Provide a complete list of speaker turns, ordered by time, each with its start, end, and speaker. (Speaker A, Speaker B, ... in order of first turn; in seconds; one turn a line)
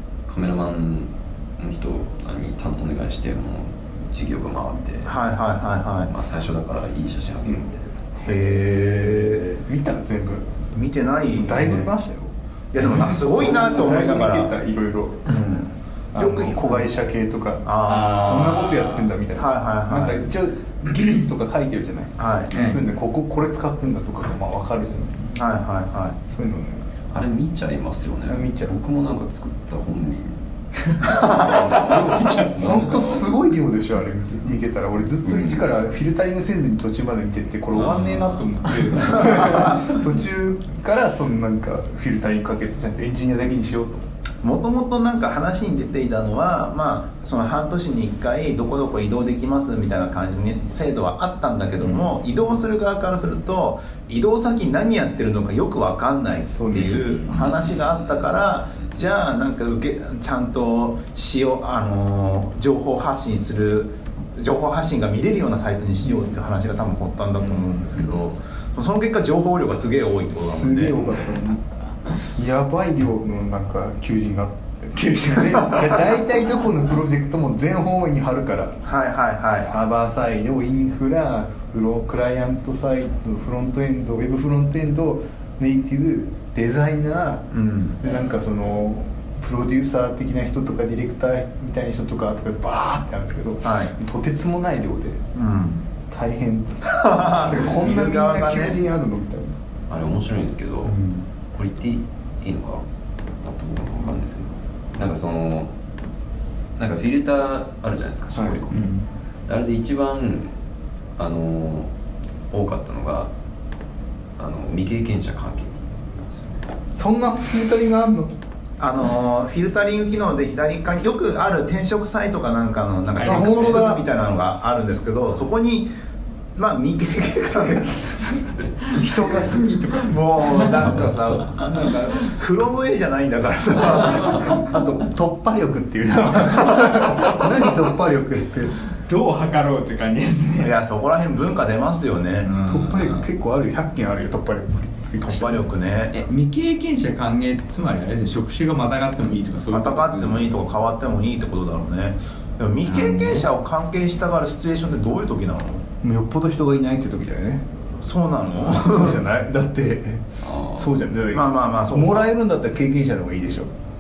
Speaker A: 0.3-5.2
Speaker B: 5.0-6.1
Speaker A: 6.1-8.0
Speaker B: 8.2-9.6
Speaker C: 9.0-10.5
Speaker B: 10.7-11.9
Speaker C: 11.3-15.5
Speaker B: 12.7-14.6
Speaker B: 15.3-16.9
Speaker C: 16.1-25.3
Speaker B: 17.6-18.8
Speaker D: 18.2-19.1
Speaker B: 19.4-20.2
Speaker B: 22.2-22.5
Speaker D: 22.5-22.8
Speaker B: 25.3-26.2
Speaker C: 26.3-26.9
Speaker A: 27.1-33.3
Speaker C: 28.3-28.8
Speaker C: 31.3-44.1
Speaker A: 35.2-35.7
Speaker A: 37.7-39.3
Speaker D: 38.9-39.4
Speaker B: 39.3-39.9
Speaker B: 44.4-71.2
Speaker C: 56.5-57.1
Speaker A: 57.1-58.3
Speaker C: 70.3-71.7
Speaker C: 72.2-78.8
Speaker B: 78.8-79.7
Speaker C: 79.6-95.2
Speaker B: 87.5-88.0
Speaker B: 93.6-93.9
Speaker B: 95.3-95.8
Speaker C: 96.1-99.6
Speaker B: 96.9-98.8
Speaker A: 99.9-101.0
Speaker B: 100.8-101.2
Speaker A: 101.5-102.8
Speaker A: 103.4-105.7
Speaker A: 106.8-108.9
Speaker C: 108.3-109.0
Speaker A: 109.5-110.5
Speaker A: 111.2-111.9
Speaker A: 112.5-113.3
Speaker A: 114.4-116.7
Speaker C: 116.9-118.3
Speaker B: 118.8-125.9
Speaker D: 123.2-123.8
Speaker C: 123.2-124.1
Speaker B: 126.6-128.4
Speaker D: 128.9-131.7
Speaker C: 129.0-129.6
Speaker B: 130.1-134.7
Speaker C: 134.3-138.8
Speaker D: 139.1-140.7
Speaker B: 140.6-142.6
Speaker D: 142.4-143.3
Speaker C: 142.7-145.7
Speaker B: 145.2-146.2
Speaker D: 146.1-150.5
Speaker B: 149.7-155.9
Speaker C: 152.9-153.4
Speaker C: 156.0-157.7
Speaker B: 158.0-159.2
Speaker C: 158.6-163.7
Speaker A: 160.4-160.9
Speaker B: 161.3-162.3